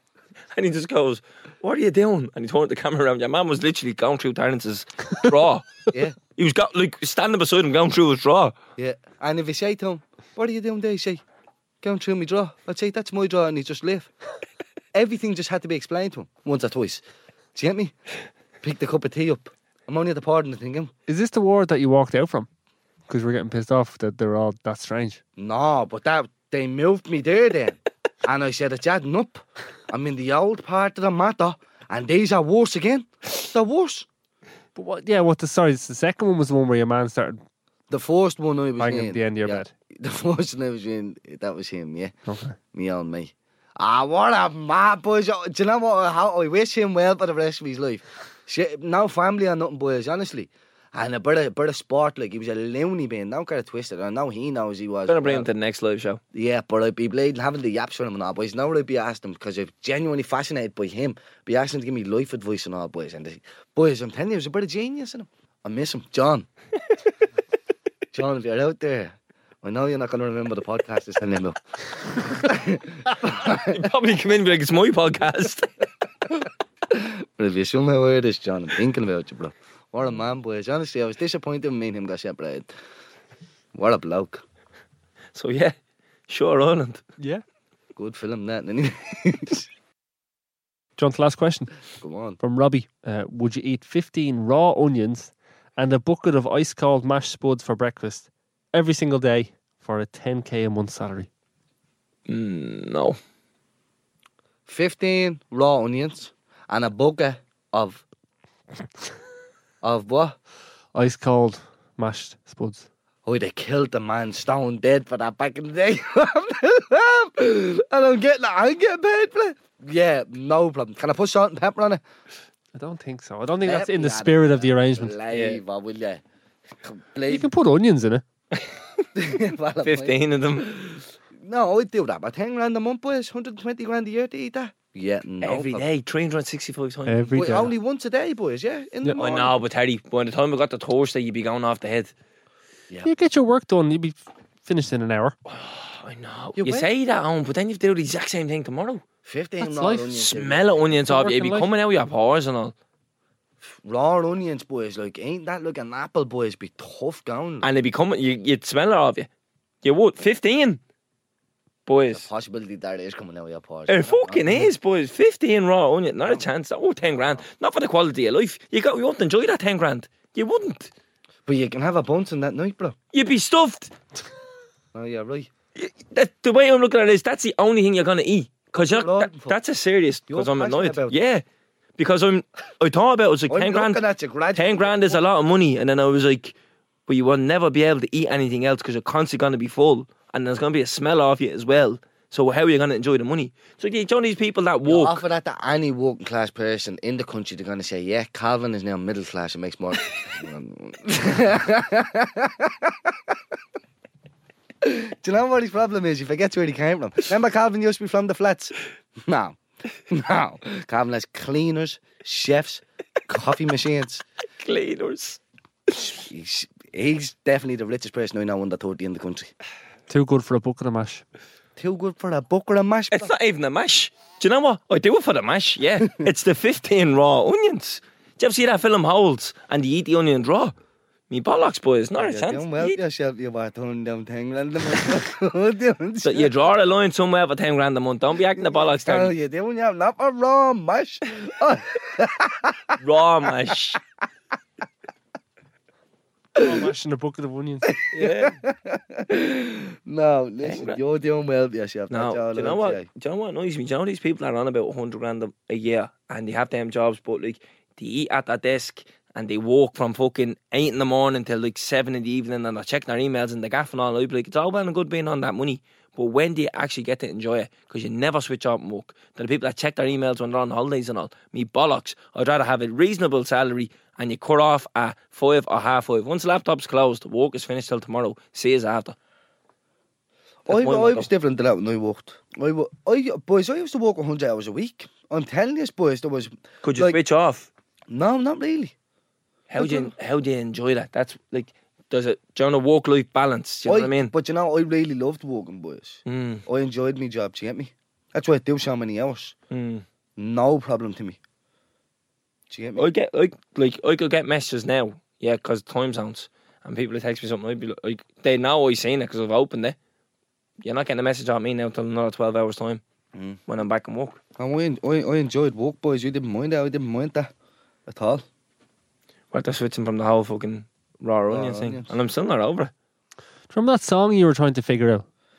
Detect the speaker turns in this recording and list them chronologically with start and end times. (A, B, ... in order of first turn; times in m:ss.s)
0:00.5-0:05.7 A
0:05.9-0:06.2 B
0:06.4-0:08.6 A
0:08.8-0:11.2 B
0:11.8-0:14.1 B
0:14.9-0:17.0 B
0:17.6-0:17.9 B
0:18.6-0:20.9 B
0:21.1-0:22.5 C
0:23.1-0:25.2 C
0:25.4-0:34.1 B
0:34.8-0:37.4 C
0:37.9-0:42.1 B
0:38.8-0:39.7 C
0:42.3-0:42.6 C
0:42.7-0:55.5 B
0:55.1-0:56.2 A
0:56.3-1:06.5 B
1:08.1-1:11.6 B
1:12.1-1:13.6 B
1:13.2-1:15.8 A
1:17.0-1:22.7 B
1:23.8-1:24.4 B
1:25.4-1:25.8 A
1:26.3-1:27.0 A
1:28.0-1:29.7 B
1:31.0-1:31.7 C
1:32.0-1:32.4 B
1:32.4-1:41.3 C
1:42.3-1:43.2 A
1:44.7-1:48.0 B
1:49.8-1:50.4 B
1:50.9-1:52.9 C
1:53.3-2:02.0 B
2:02.7-2:05.2 C
2:03.6-2:06.2 B
2:05.3-2:05.6 A
2:06.8-2:07.5 B
2:07.3-2:08.2 C
2:08.5-2:08.8 A
2:09.2-2:15.9 B
2:09.8-2:10.8 A
2:15.4-2:17.5 A
2:17.1-2:17.7 C
2:17.4-2:19.6 B
2:19.2-2:22.1 A
2:23.0-2:25.4 C
2:25.5-2:29.0 A
2:26.6-2:26.9 B
2:29.2-2:31.0 B
2:29.6-2:30.2 C
2:30.2-2:32.7 A
2:31.0-2:31.7 C
2:33.6-2:37.7 B
2:37.6-2:39.3 A
2:39.8-2:40.8 A
2:41.9-2:42.3 A
2:42.1-2:44.7 B
2:43.9-2:50.9 A
2:51.5-2:53.0 B
2:53.1-2:53.9 A
2:54.9-2:55.5 B
2:55.8-3:01.4 A
2:58.8-2:59.6 B
3:00.3-3:01.2 B
3:02.0-3:04.0 A
3:03.5-3:05.2 B
3:04.5-3:06.6 A
3:07.1-3:15.2 A
3:14.9-3:23.0 B
3:24.8-3:28.8 B
3:29.3-3:29.6 B
3:30.1-3:34.2 B
3:34.6-3:35.4 A
3:36.1-3:39.5 B
3:40.1-3:41.2 C
3:41.8-3:43.3 B
3:43.1-3:50.8 A
3:51.3-3:53.0 A
3:52.2-3:56.6 B
3:56.2-3:59.3 A
3:58.6-4:02.8 B
4:03.0-4:04.0 A
4:06.6-4:06.9 B
4:06.6-4:07.9 C
4:07.9-4:13.1 B
4:08.1-4:08.6 A
4:10.6-4:11.0 A
4:12.1-4:39.2 A
4:40.7-4:47.2 B
4:40.7-4:41.3 A
4:46.8-4:47.7 A
4:48.1-4:48.9 B
4:49.7-4:54.3 A
4:49.8-4:50.1 B
4:53.8-4:59.5 B
4:56.3-4:56.6 A
4:59.7-5:00.0 A
5:00.4-5:01.4 B
5:02.7-5:03.1 B
5:03.0-5:10.0 A
5:10.8-5:13.0 A
5:13.3-5:13.6 B
5:13.7-5:14.4 A
5:14.6-5:17.5 B
5:18.1-5:18.4 B
5:19.5-5:22.9 A
5:21.5-5:22.1 B
5:23.7-5:25.2 C